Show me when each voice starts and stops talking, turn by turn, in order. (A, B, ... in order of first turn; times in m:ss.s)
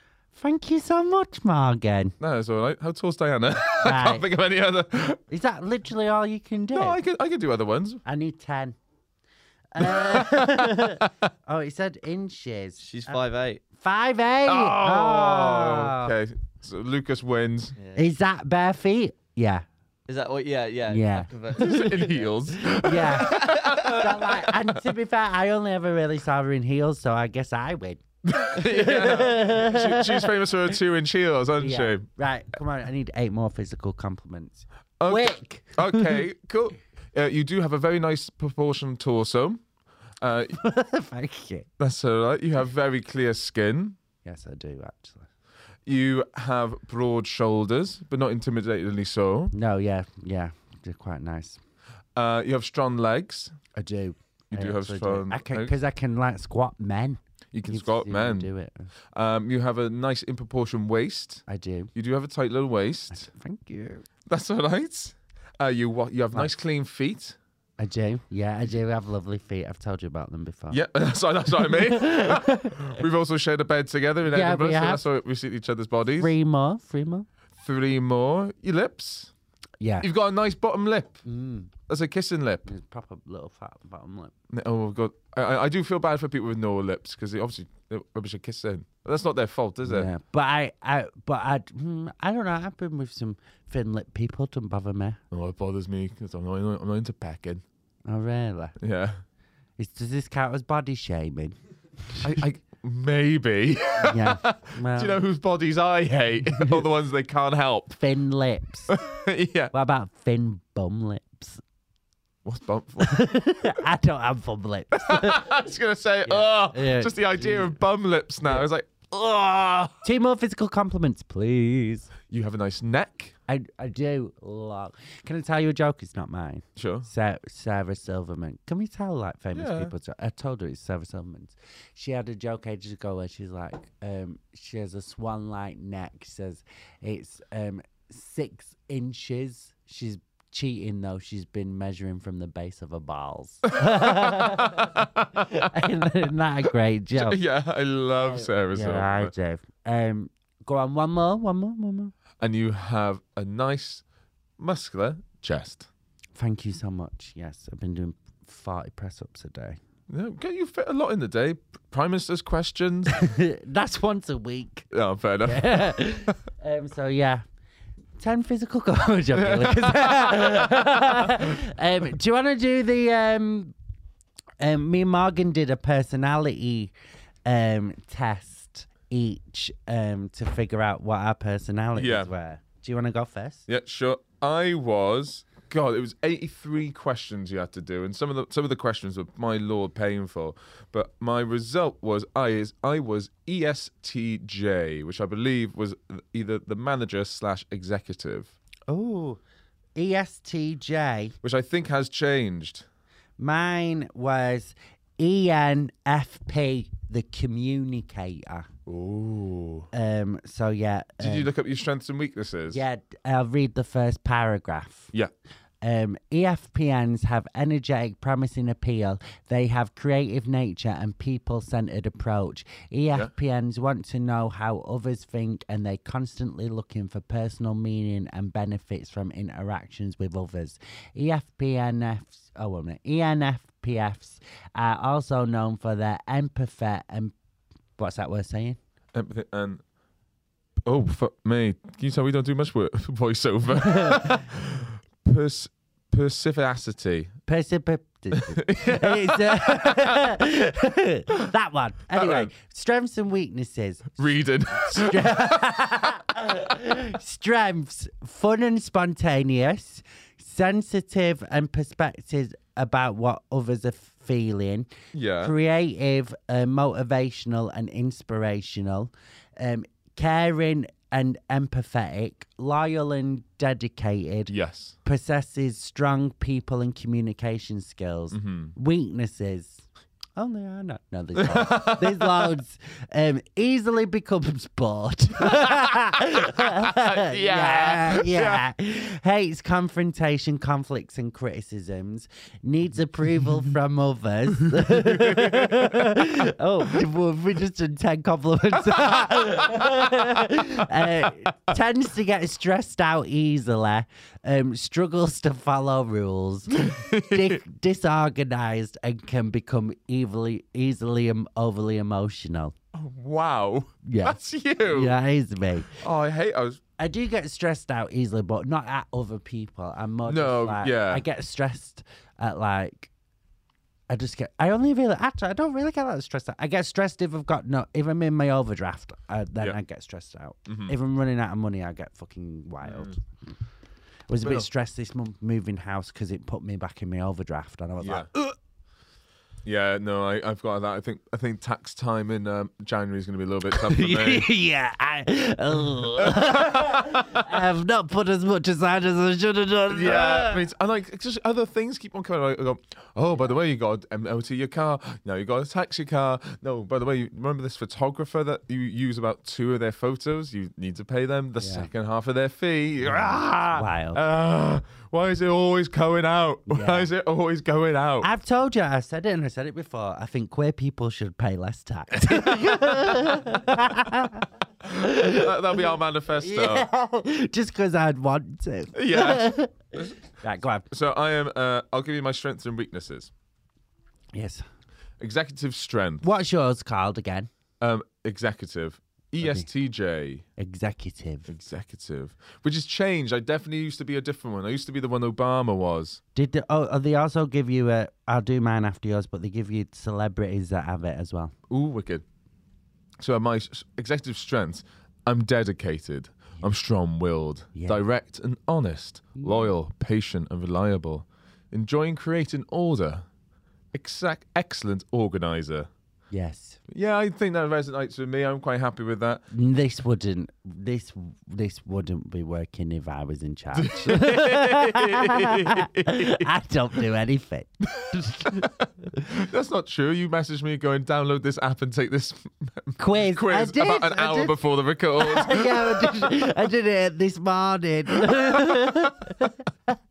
0:00.3-0:02.2 A
0:02.2-0:05.2 B
0:03.8-0:04.2 A
0:05.3-0:07.0 A
0:06.7-0:08.0 B
0:08.0-0:08.8 A
0:09.7-0:13.2 A
0:09.8-0:11.1 B
0:12.8-0:13.6 C
0:13.7-0:16.1 A
0:14.4-0:17.8 B
0:17.8-0:18.1 C
0:17.9-0:19.7 A
0:20.1-0:22.3 C
0:20.9-0:21.9 A
0:21.6-0:24.8 B
0:22.6-0:28.0 A
0:23.3-0:24.0 C
0:28.2-0:32.1 B
0:28.5-0:30.3 A
0:31.6-0:36.2 A
0:35.0-0:39.6 B
0:40.2-0:40.6 B
0:40.6-0:41.7 A
0:41.8-0:44.0 B
0:44.2-0:45.3 A
0:45.9-0:49.5 B
0:49.5-0:51.6 A
0:52.2-0:53.6 B
0:53.7-0:58.9 A
0:54.5-0:55.7 B
0:57.5-0:58.5 B
0:59.1-1:01.4 B
1:01.5-1:01.9 A
1:02.0-1:03.3 B
1:03.1-1:04.1 A
1:04.3-1:07.4 B
1:07.8-1:10.8 A
1:10.7-1:16.3 B
1:11.5-1:13.0 A
1:14.3-1:15.0 A
1:16.2-1:17.3 A
1:17.6-1:19.3 B
1:19.8-1:20.1 A
1:20.0-1:21.2 B
1:21.2-1:21.7 A
1:21.9-1:22.7 B
1:22.6-1:24.3 A
1:24.5-1:30.1 B
1:29.8-1:35.2 A
1:35.3-1:37.6 B
1:38.0-1:38.8 A
1:38.8-1:39.2 B
1:39.8-1:41.6 A
1:42.1-1:42.4 A
1:42.2-1:48.0 B
1:44.0-1:45.2 A
1:46.5-1:46.9 A
1:48.0-1:49.0 A
1:48.9-1:49.7 B
1:49.7-1:51.6 A
1:52.4-1:53.3 B
1:53.0-1:55.6 A
1:54.9-2:00.0 B
1:56.2-1:57.8 A
2:00.0-2:02.1 A
2:02.3-2:03.4 B
2:03.5-2:27.4 A
2:06.8-2:07.1 B
2:09.5-2:09.9 B
2:23.7-2:25.7 B
2:27.2-2:29.3 B
2:28.2-2:32.1 A
2:32.4-2:34.0 B
2:34.6-2:35.9 B
2:36.4-2:39.8 A
2:40.1-2:43.3 B
2:43.1-2:44.9 A
2:44.9-2:46.3 B
2:45.4-2:47.4 A
2:48.2-2:53.7 A
2:49.4-2:51.0 B
2:54.6-2:56.9 A
2:57.4-3:03.7 A
3:02.0-3:02.3 B
3:03.7-3:18.6 B
3:18.9-3:19.4 A
3:20.0-3:21.4 A
3:21.4-3:22.9 B
3:23.4-3:28.7 A
3:28.9-3:29.9 B
3:29.9-3:31.5 A
3:31.2-3:32.8 B
3:32.7-3:35.1 A
3:35.8-3:57.3 A
3:58.0-3:58.8 A
3:59.1-3:59.8 B
4:00.9-4:07.3 B
4:03.8-4:04.4 A
4:07.5-4:24.9 A
4:08.3-4:10.2 B
4:12.1-4:12.5 B
4:14.2-4:15.9 B
4:25.1-4:25.5 B
4:25.4-4:34.5 A
4:34.5-4:35.0 B
4:35.0-4:39.8 A
4:38.3-4:38.7 B
4:40.4-5:12.7 A
4:41.4-4:42.5 B
4:46.3-4:48.6 B
4:54.6-4:56.2 B
4:59.1-5:00.4 B
5:06.8-5:07.6 B
5:12.9-5:15.1 B
5:14.0-5:16.0 A
5:15.9-5:16.8 B
5:17.0-5:23.1 A
5:20.3-5:21.2 B
5:24.1-5:33.2 A
5:30.7-5:31.0 B
5:32.8-5:33.2 B
5:34.3-5:38.5 A
5:34.4-5:34.7 B
5:38.0-5:38.3 B
5:39.6-5:44.5 B
5:43.7-5:50.6 A
5:46.2-5:47.6 B
5:49.9-6:08.3 B
6:01.6-6:01.9 A
6:03.0-6:04.2 A
6:06.7-6:07.1 A
6:08.2-6:20.9 A
6:14.8-6:16.9 B
6:18.9-6:19.5 B
6:20.9-6:23.3 B
6:24.3-6:24.6 A
6:25.2-6:26.3 B
6:26.2-6:27.5 A
6:27.8-6:30.4 B
6:29.4-6:29.7 A
6:30.6-6:31.5 A
6:31.5-6:36.2 B
6:36.4-6:41.5 A
6:41.7-6:42.2 B
6:43.2-6:53.3 B
6:47.8-6:48.0 A
6:49.4-6:49.7 A
6:53.9-6:55.9 B
6:56.3-6:56.8 A
6:56.9-6:59.4 B
6:59.5-7:08.7 A
7:03.7-7:06.5 B
7:08.0-7:16.3 B
7:13.0-7:14.6 A
7:15.2-7:19.9 A
7:18.3-7:19.4 B